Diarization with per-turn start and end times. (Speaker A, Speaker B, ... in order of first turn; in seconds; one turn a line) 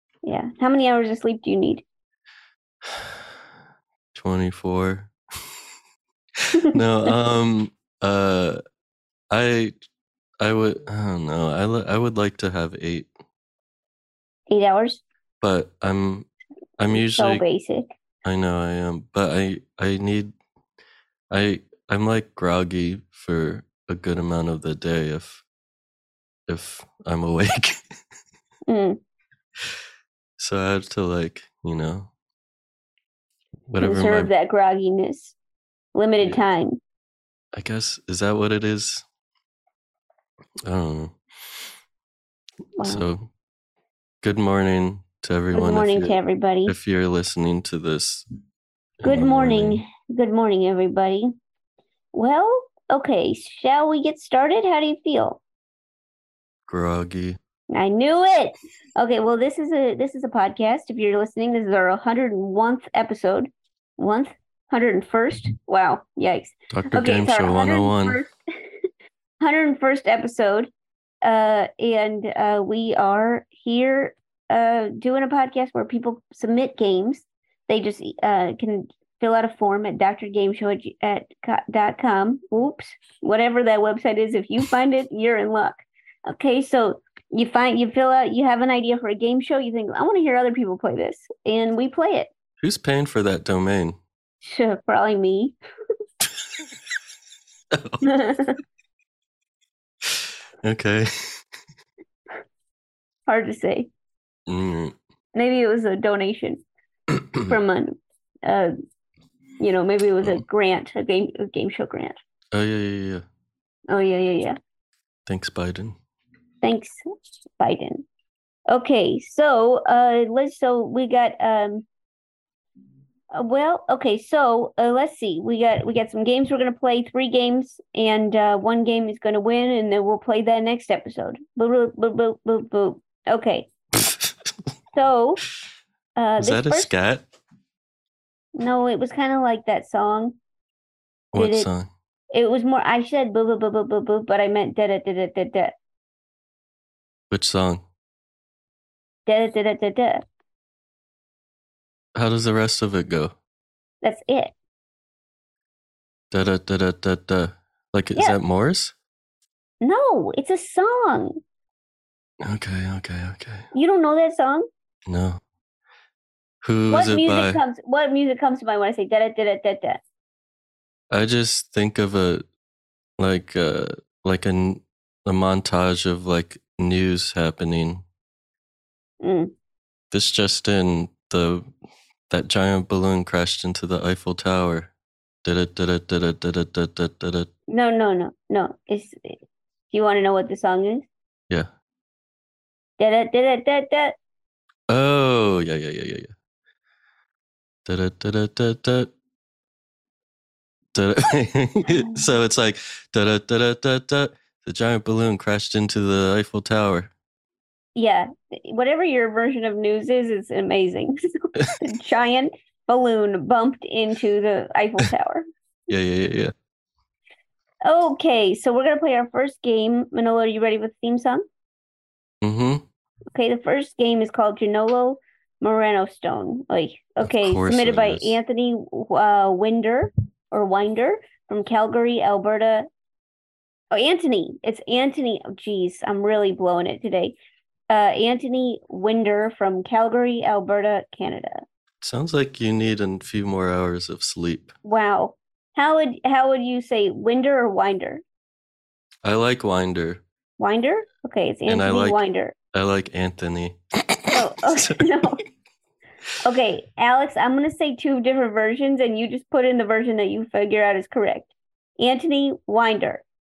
Speaker A: 0.2-1.8
Speaker B: 2.8-3.2
Speaker B: 4.1-5.1
Speaker B: 6.5-8.6
Speaker B: 9.3-9.7
Speaker B: 10.4-13.1
Speaker A: 14.5-15.0
Speaker B: 15.4-16.3
Speaker B: 16.8-17.4
Speaker A: 16.9-17.9
Speaker B: 18.2-20.3
Speaker B: 21.3-25.4
Speaker B: 26.5-27.8
Speaker A: 28.7-29.0
Speaker B: 30.4-32.1
Speaker B: 33.7-34.3
Speaker A: 33.8-35.3
Speaker A: 35.9-36.8
Speaker B: 37.5-39.0
Speaker B: 40.6-41.2
Speaker A: 42.8-43.0
Speaker B: 42.8-43.3
Speaker B: 44.2-48.2
Speaker A: 45.5-46.7
Speaker B: 49.0-49.8
Speaker A: 49.0-51.3
Speaker A: 52.1-55.4
Speaker B: 56.7-57.4
Speaker A: 57.7-68.3
Speaker B: 66.7-68.2
Speaker A: 69.4-70.7
Speaker A: 71.2-92.3
Speaker B: 92.6-94.0
Speaker A: 94.4-95.5
Speaker B: 97.7-98.0
Speaker A: 98.0-98.6
Speaker B: 100.0-101.4
Speaker A: 103.3-103.9
Speaker B: 104.5-105.0
Speaker A: 105.3-106.6
Speaker A: 107.4-108.7
Speaker A: 109.6-112.1
Speaker B: 112.5-113.2
Speaker A: 113.9-114.5
Speaker B: 115.3-116.0
Speaker A: 116.6-117.0
Speaker A: 117.6-118.0
Speaker A: 118.7-121.8
Speaker A: 123.3-133.7
Speaker A: 134.9-135.4
Speaker A: 136.2-136.9
Speaker B: 136.4-137.2
Speaker A: 138.6-140.3
Speaker B: 141.3-141.9
Speaker A: 141.3-141.7
Speaker A: 142.3-145.7
Speaker B: 147.3-147.8
Speaker A: 149.2-150.2
Speaker B: 152.1-153.3
Speaker A: 154.0-154.5
Speaker B: 156.3-158.9
Speaker A: 159.8-161.4
Speaker B: 162.4-163.7
Speaker A: 163.7-164.7
Speaker B: 165.1-165.4
Speaker B: 166.6-167.6
Speaker A: 166.9-170.0
Speaker B: 171.1-172.4
Speaker B: 173.2-178.0
Speaker A: 179.2-179.5
Speaker B: 180.1-181.7
Speaker B: 182.3-184.9
Speaker B: 185.4-187.5
Speaker A: 187.7-189.4
Speaker A: 189.9-191.1
Speaker A: 193.0-194.2
Speaker B: 194.9-196.3
Speaker B: 197.8-199.1
Speaker B: 200.9-207.1
Speaker A: 207.9-215.4
Speaker B: 215.9-216.5
Speaker A: 217.8-221.4
Speaker B: 222.4-222.8
Speaker A: 223.3-232.9
Speaker B: 227.2-228.3
Speaker A: 233.9-237.3
Speaker A: 237.9-241.6
Speaker B: 242.0-244.7
Speaker A: 244.8-248.2
Speaker B: 249.2-250.2
Speaker A: 250.6-252.5
Speaker B: 251.7-255.0
Speaker A: 254.3-255.4
Speaker A: 256.4-263.2